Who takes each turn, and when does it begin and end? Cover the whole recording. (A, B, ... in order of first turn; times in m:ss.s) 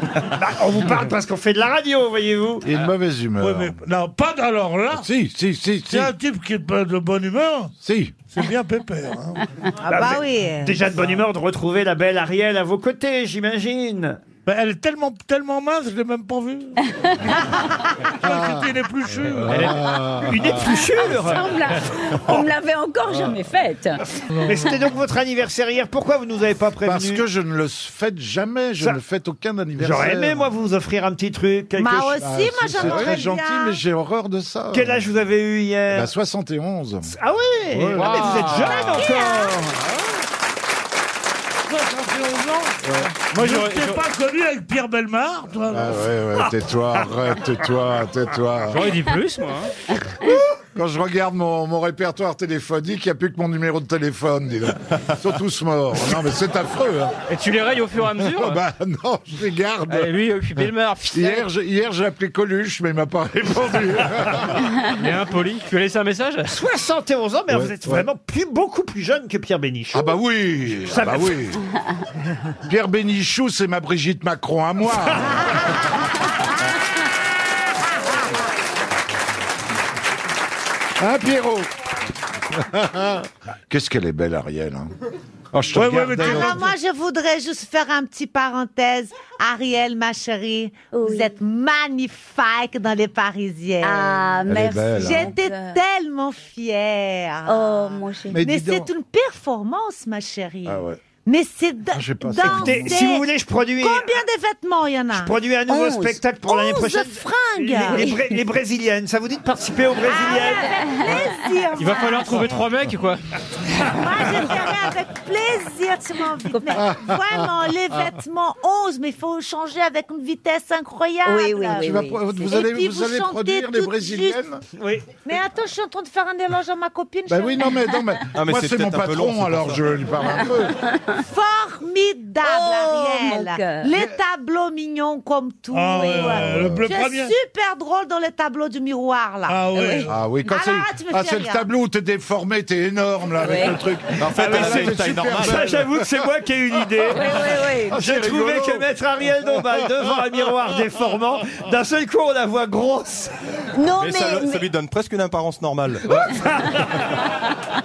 0:00.3-0:02.7 A
0:02.6-0:03.8 B
0:03.4-0:05.0 C
0:04.9-0:06.1 B
0:05.9-0:07.7 C
0:07.8-0:08.1 B
0:08.3-0:09.4 C
0:09.8-0:10.8 D
0:09.9-0:14.2 A
0:14.4-0:16.8 C
0:18.2-0:19.8 C
0:19.5-0:20.1 E
0:19.5-0:20.6 B
0:20.2-0:21.6 A
0:20.6-0:24.0 F
0:24.4-0:27.2 A
0:26.8-0:30.5 B
0:29.8-0:32.2 A
0:31.8-0:33.8 D
0:32.1-0:35.0 B
0:34.7-0:36.1 A
0:35.9-0:37.1 B
0:37.1-0:39.6 A
0:37.7-0:38.2 B
0:37.9-0:39.1 E
0:38.5-0:39.6 D
0:41.7-0:45.9 C
0:42.8-0:43.1 B
0:43.3-0:44.0 E
0:45.7-0:48.8 B
0:48.7-0:49.7 E
0:50.2-0:57.1 B
0:57.3-0:58.6 E
0:58.2-1:00.1 B
0:59.9-1:01.5 E
1:01.1-1:04.6 B
1:04.8-1:06.5 E
1:06.5-1:10.2 A
1:07.5-1:08.1 B
1:09.9-1:11.6 B
1:10.9-1:11.3 A
1:12.7-1:15.5 B
1:21.0-1:21.7 B
1:22.5-1:24.9 B
1:25.5-1:26.7 B
1:25.7-1:26.7 C
1:26.2-1:34.3 D
1:30.9-1:31.3 F
1:33.8-1:35.8 F
1:34.5-1:35.3 B
1:35.0-1:43.2 D
1:37.5-1:38.4 F
1:38.3-1:38.9 B
1:40.6-1:41.0 B
1:41.9-1:43.0 B
1:42.4-1:44.2 A
1:43.8-1:45.3 D
1:45.1-1:50.7 A
1:45.7-1:46.2 F
1:46.4-1:48.2 D
1:50.0-1:52.4 D
1:50.8-1:51.4 F
1:51.8-1:53.2 E
1:53.9-2:04.4 D
1:56.7-1:57.4 B
2:01.2-2:02.6 F
2:01.8-2:04.6 B
2:04.8-2:05.0 A
2:05.2-2:07.8 D
2:07.3-2:10.7 B
2:08.3-2:09.8 G
2:11.2-2:19.6 D
2:12.4-2:13.9 F
2:15.7-2:17.3 C
2:16.2-2:16.8 B
2:19.5-2:20.1 C
2:20.1-2:26.0 B
2:20.4-2:21.6 D
2:23.4-2:23.8 F
2:24.2-2:25.6 G
2:24.4-2:27.4 A
2:27.1-2:28.0 F
2:27.9-2:28.8 B
2:27.9-2:33.3 A
2:33.7-2:34.7 F
2:34.0-2:36.2 G